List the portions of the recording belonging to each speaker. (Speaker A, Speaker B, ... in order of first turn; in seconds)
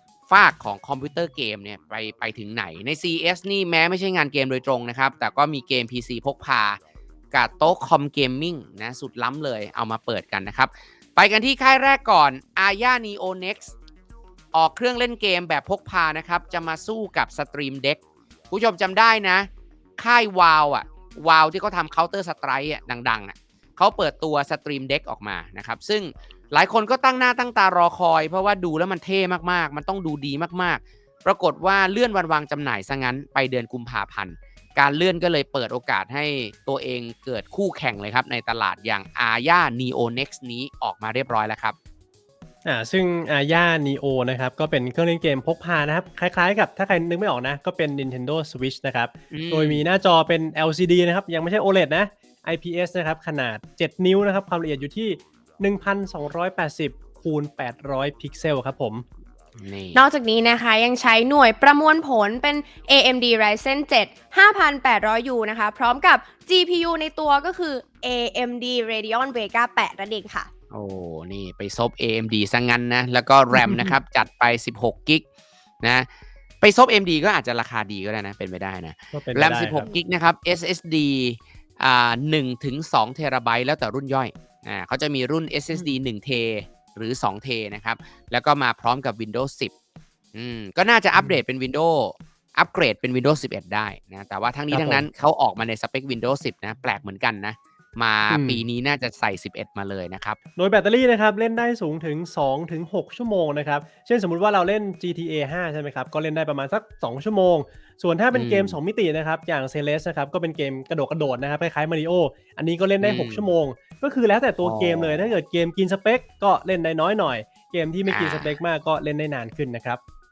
Speaker A: 0.3-6.8, 7.3-13.7, 14.5-41.8, 49.3-49.8, 59.6-60.0, 70.7-75.2, 76.6-89.7, 90.3-100.4, 108.3-108.8, 113.0-113.5, 114.6-115.3, 118.1-118.6
Speaker B: 42.6-59.0, 73.5-73.9, 79.1-79.8, 94.7-95.1, 98.3-98.6, 100.6-120.0
Speaker C: 59.9-70.5